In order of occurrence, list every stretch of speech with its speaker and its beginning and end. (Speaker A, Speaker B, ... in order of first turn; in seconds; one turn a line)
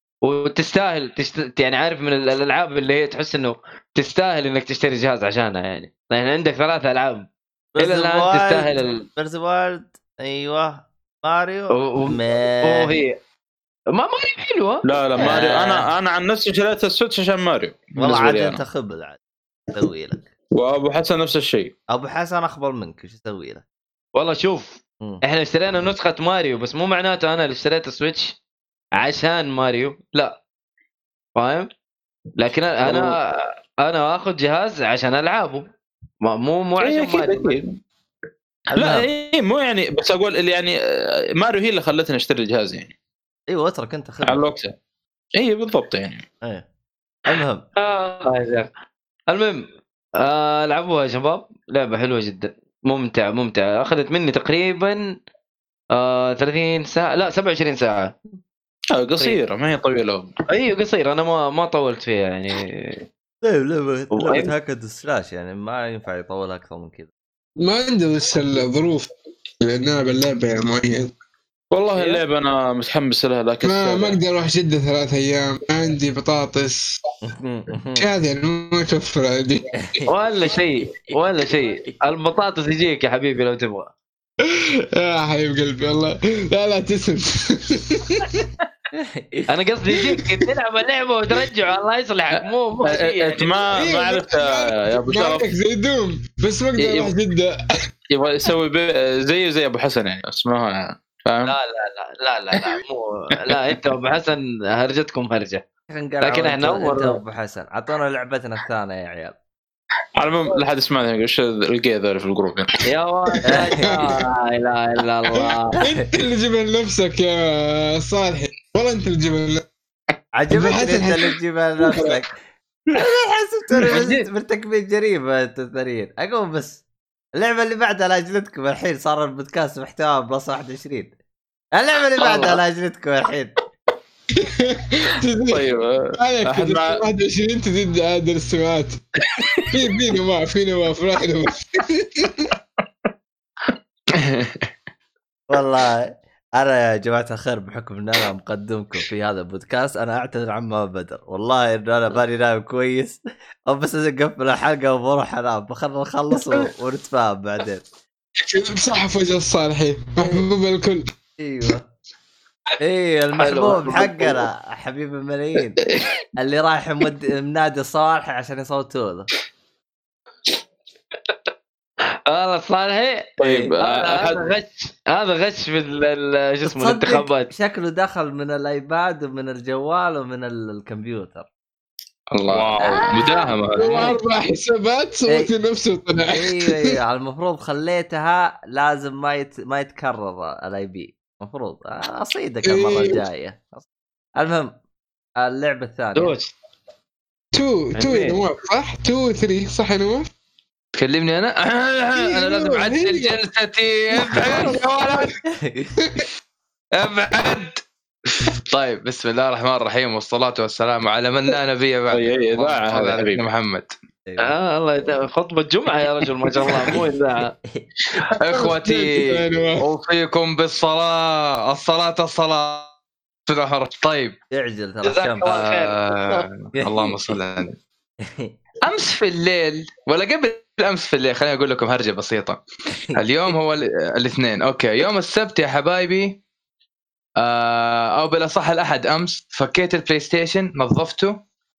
Speaker A: 0.2-7.3
Speaker B: 7.7-13.0
Speaker A: 7.8-9.1
Speaker A: 11.7-13.2
Speaker A: 13.9-15.9
Speaker C: 14.8-18.6
Speaker B: 18.0-19.2
Speaker B: 19.8-20.3
Speaker C: 20.5-21.7
Speaker B: 21.9-23.6
Speaker A: 24.1-28.4
Speaker A: 28.9-30.4
Speaker A: 31.4-31.7
Speaker A: 32.4-35.6
Speaker A: 36.2-37.6
Speaker C: 36.8-37.8
Speaker C: 38.7-40.7
Speaker C: 41.4-42.9
Speaker B: 43.5-44.4
Speaker C: 44.2-44.7
Speaker C: 45.4-46.2
Speaker B: 47.3-47.6
Speaker A: 47.8-48.7
Speaker A: 49.3-49.6
Speaker A: 50.2-55.1
Speaker A: 56.0-58.1
Speaker C: 58.9-60.3
Speaker A: 60.5-63.0
Speaker B: 63.4-67.1
Speaker A: 64.2-64.5
Speaker D: 67.6-69.1
Speaker D: 69.6-71.1
Speaker C: 71.7-74.2
Speaker A: 72.0-72.2
Speaker D: 73.6-77.0
Speaker B: 77.2-78.1
Speaker D: 78.0-79.8
Speaker B: 79.8-80.1
Speaker A: 80.1-83.9
Speaker D: 84.4-88.3
Speaker B: 89.0-89.5
Speaker A: 89.5-93.6
Speaker D: 90.1-90.4
Speaker C: 92.3-95.5
Speaker D: 93.8-97.6
Speaker C: 96.8-97.1
Speaker C: 98.1-101.6
Speaker A: 101.5-105.6
Speaker B: 105.9-109.3
Speaker A: 106.2-107.2
Speaker C: 110.2-112.8
Speaker A: 112.8-115.8
Speaker B: 113.4-113.9
Speaker D: 115.4-119.7
Speaker B: 120.4-122.4
Speaker D: 120.5-122.2
Speaker B: 123.0-126.8
Speaker A: 123.8-124.3
Speaker B: 127.3-131.1
Speaker B: 131.7-133.5
Speaker A: 132.2-132.6
Speaker D: 134.4-135.7
Speaker C: 135.5-137.0
Speaker D: 136.2-139.0
Speaker D: 139.7-142.5
Speaker E: 144.1-144.7
Speaker B: 145.5-157.8
Speaker D: 158.4-161.1
Speaker B: 161.4-161.9
Speaker B: 162.8-165.8
Speaker A: 163.5-164.1
Speaker B: 166.4-169.3
Speaker A: 172.3-177.5
Speaker C: 173.4-174.4
Speaker B: 176.6-181.5
Speaker C: 182.3-184.1
Speaker B: 182.5-183.6
Speaker E: 183.2-183.8
Speaker D: 183.8-187.0
Speaker B: 186.3-193.8
Speaker D: 192.6-193.2
Speaker B: 194.4-194.7
Speaker B: 195.4-196.3
Speaker A: 196.2-196.5
Speaker D: 197.5-200.3
Speaker A: 198.0-198.4
Speaker E: 201.0-205.3
Speaker D: 202.2-203.4
Speaker D: 204.2-205.2
Speaker B: 204.5-204.7
Speaker B: 205.5-205.9
Speaker E: 206.9-213.9
Speaker C: 212.1-213.5
Speaker B: 214.3-214.6
Speaker A: 214.4-217.5
Speaker E: 218.2-222.9
Speaker D: 218.4-219.8
Speaker E: 223.5-224.4
Speaker B: 224.5-225.5
Speaker A: 225.0-226.4
Speaker E: 225.4-227.8
Speaker B: 226.8-227.2
Speaker B: 228.2-228.5
Speaker E: 228.8-232.6
Speaker E: 233.2-236.4
Speaker E: 237.4-241.3